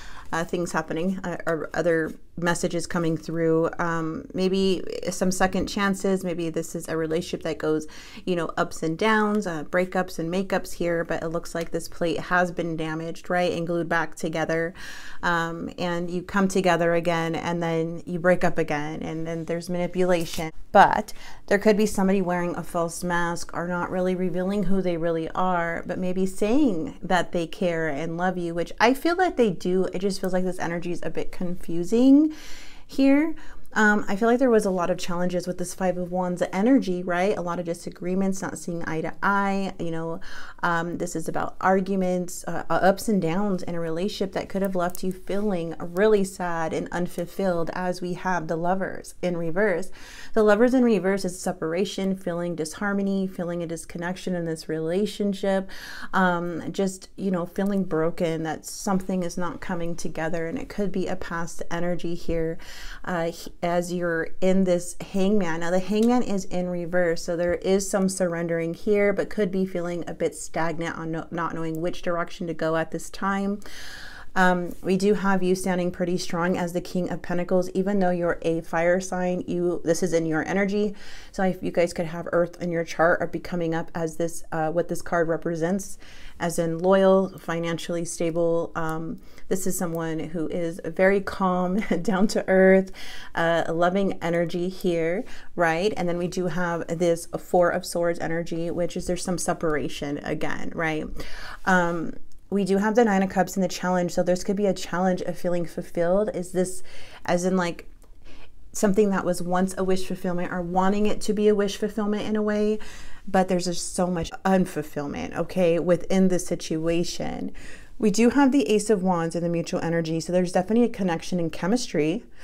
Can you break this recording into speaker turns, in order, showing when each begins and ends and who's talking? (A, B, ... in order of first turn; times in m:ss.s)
0:00.3-0:32.3 A
0:32.9-1:13.6 A
1:14.3-1:41.1 A
1:41.6-1:47.9 A
1:48.7-2:02.2 A